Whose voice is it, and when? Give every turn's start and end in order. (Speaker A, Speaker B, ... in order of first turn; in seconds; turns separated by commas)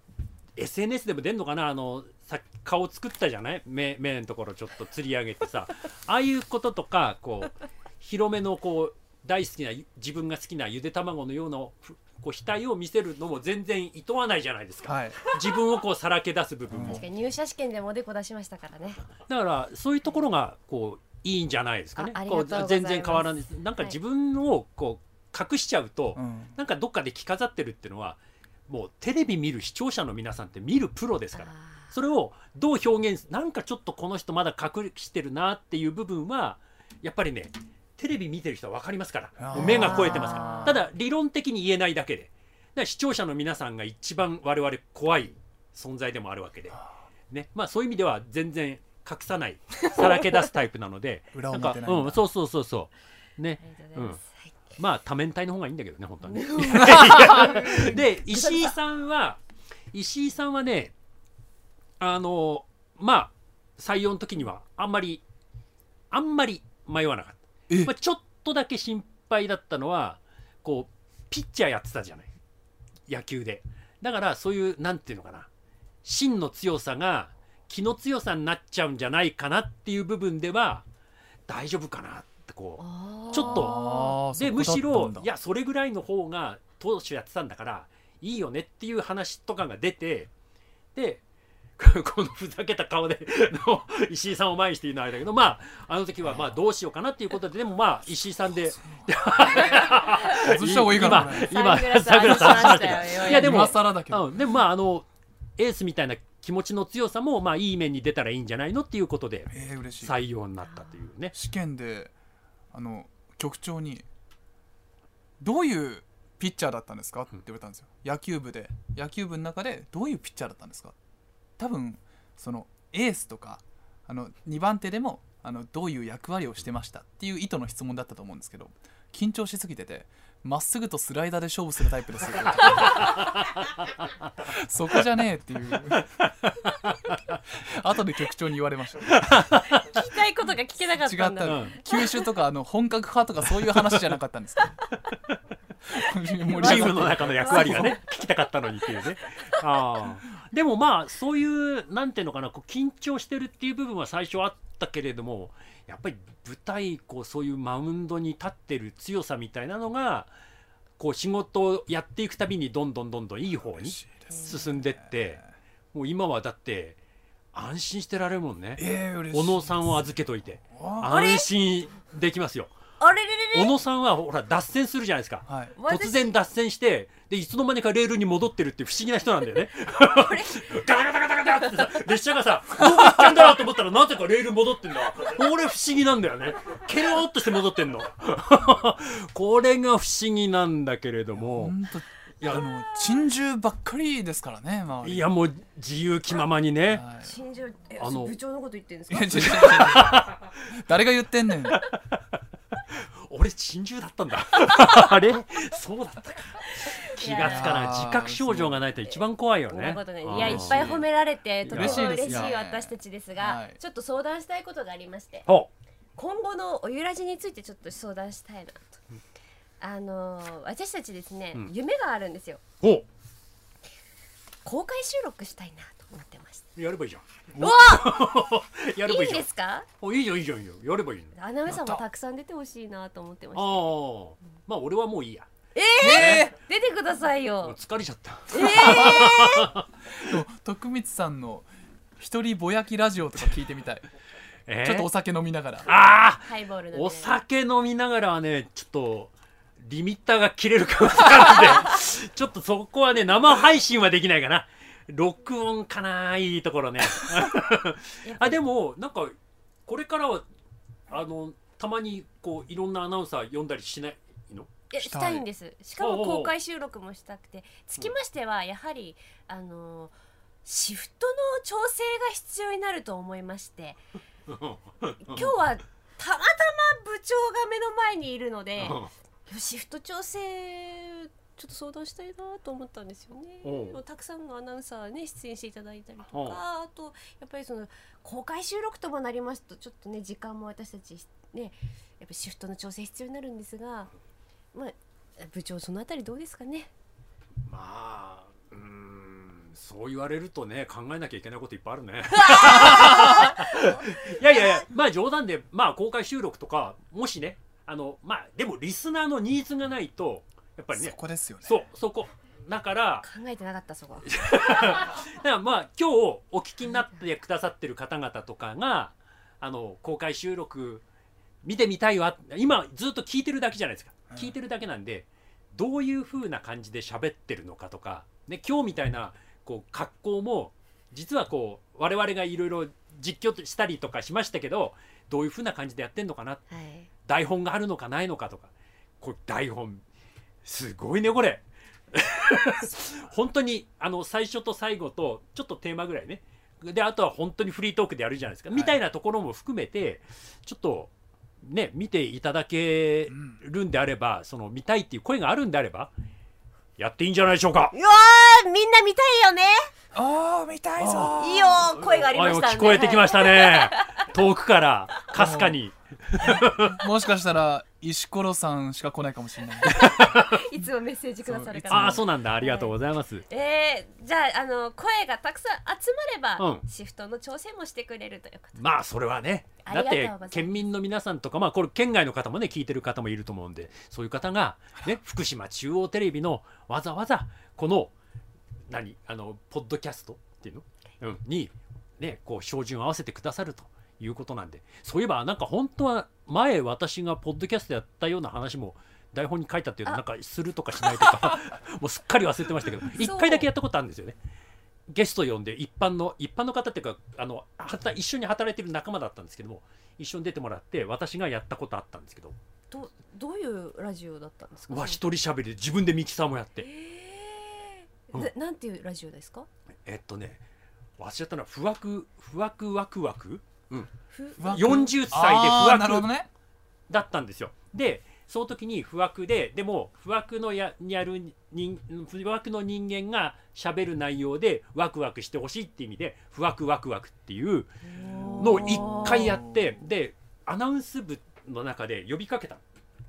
Speaker A: 0.6-17.1, Speaker B: 14.8-15.2, Speaker B: 16.7-17.0, Speaker C: 16.8-19.0, Speaker A: 19.3-59.4, Speaker C: 21.9-24.0, Speaker B: 26.1-26.5, Speaker C: 31.3-31.9, Speaker B: 39.4-40.8, Speaker C: 39.5-40.8, Speaker B: 51.3-52.2, Speaker C: 53.6-54.5, Speaker C: 56.2-58.7, Speaker A: 59.9-60.9, Speaker A: 62.0-65.2, Speaker A: 66.1-72.3, Speaker A: 73.1-75.5, Speaker A: 76.0-80.8, Speaker A: 81.5-83.8, Speaker C: 82.8-84.2, Speaker B: 83.4-85.3, Speaker A: 84.3-90.3, Speaker A: 90.9-91.2, Speaker A: 91.8-105.1, Speaker B: 98.9-99.9, Speaker B: 100.4-101.6, Speaker C: 101.1-103.5, Speaker B: 102.3-104.3, Speaker A: 105.6-111.3, Speaker B: 109.5-110.1, Speaker C: 110.6-111.0, Speaker B: 111.3-112.1, Speaker B: 112.7-114.0, Speaker B: 115.4-120.9, Speaker B: 121.6-133.1, Speaker A: 132.8-133.5, Speaker B: 134.4-136.1, Speaker A: 136.5-137.2, Speaker B: 137.5-139.2, Speaker A: 139.1-139.8, Speaker C: 139.8-142.2, Speaker B: 141.0-144.8, Speaker A: 141.4-141.8, Speaker A: 143.7-144.1, Speaker B: 145.8-148.0, Speaker C: 146.5-148.0, Speaker A: 146.6-160.3, Speaker A: 161.0-165.4, Speaker B: 163.7-165.4, Speaker C: 164.3-164.6, Speaker A: 165.9-167.0, Speaker A: 167.5-172.7, Speaker B: 168.8-170.0, Speaker B: 170.7-171.2, Speaker C: 171.1-171.5, Speaker C: 173.0-173.8, Speaker A: 173.5-191.7, Speaker B: 175.5-175.8, Speaker C: 175.8-176.3, Speaker C: 180.1-180.8, Speaker B: 191.4-195.3, Speaker A: 192.4-192.7, Speaker A: 195.0-197.0, Speaker B: 196.9-197.3, Speaker C: 197.2-199.9, Speaker A: 198.0-198.3, Speaker B: 199.1-201.8, Speaker A: 199.4-200.5, Speaker A: 202.9-211.0, Speaker C: 206.8-207.8, Speaker B: 207.4-208.8, Speaker C: 209.1-215.5, Speaker B: 210.3-210.9, Speaker A: 211.6-212.9, Speaker B: 211.7-212.6, Speaker B: 213.4-213.8, Speaker C: 216.2-219.0, Speaker C: 219.8-222.6, Speaker A: 222.8-223.1, Speaker C: 224.6-226.7, Speaker A: 226.8-229.4, Speaker C: 227.6-228.2, Speaker C: 229.0-229.9, Speaker A: 230.0-231.3, Speaker C: 231.3-233.9, Speaker B: 231.7-232.0, Speaker A: 233.5-235.5, Speaker C: 235.7-237.8, Speaker B: 236.0-236.5, Speaker A: 236.0-236.5, Speaker A: 237.6-239.8, Speaker C: 238.5-239.7, Speaker B: 238.6-239.3, Speaker B: 240.2-241.7, Speaker B: 242.2-244.0, Speaker A: 244.7-245.1, Speaker B: 244.8-245.9, Speaker A: 245.8-259.3, Speaker C: 246.4-247.3, Speaker C: 258.2-258.6, Speaker A: 259.9-260.4, Speaker A: 261.1-264.7, Speaker C: 264.9-270.1, Speaker B: 265.0-265.4, Speaker A: 266.0-266.5, Speaker C: 270.6-274.0, Speaker A: 274.5-275.5, Speaker C: 275.2-294.1, Speaker A: 278.8-279.1, Speaker A: 283.6-284.0, Speaker A: 286.3-286.6, Speaker C: 294.7-296.9, Speaker A: 297.7-313.2, Speaker C: 302.4-304.8, Speaker B: 310.9-311.7, Speaker C: 313.2-315.0, Speaker A: 314.3-321.0, Speaker A: 321.6-336.6, Speaker C: 336.7-337.1, Speaker A: 337.2-340.0, Speaker A: 340.6-351.1, Speaker A: 351.6-356.1, Speaker B: 353.3-353.6, Speaker A: 357.0-357.9, Speaker C: 357.9-359.9, Speaker B: 360.1-361.9, Speaker A: 361.0-367.1, Speaker C: 361.4-364.2, Speaker B: 365.3-365.8, Speaker B: 366.4-370.0, Speaker C: 369.8-372.9, Speaker A: 369.9-370.6, Speaker B: 371.4-372.2, Speaker A: 371.9-373.4, Speaker C: 373.5-378.8, Speaker A: 376.6-376.9, Speaker A: 378.8-388.1, Speaker C: 379.8-380.9, Speaker A: 388.9-404.4, Speaker C: 403.2-403.7, Speaker A: 405.1-412.6, Speaker C: 412.9-415.2, Speaker A: 414.9-416.9, Speaker C: 416.8-419.7, Speaker A: 420.0-420.6, Speaker A: 421.2-426.3, Speaker C: 424.3-425.1, Speaker B: 424.6-426.5, Speaker A: 427.1-437.9, Speaker C: 438.1-439.6, Speaker B: 438.2-439.6, Speaker A: 438.6-442.8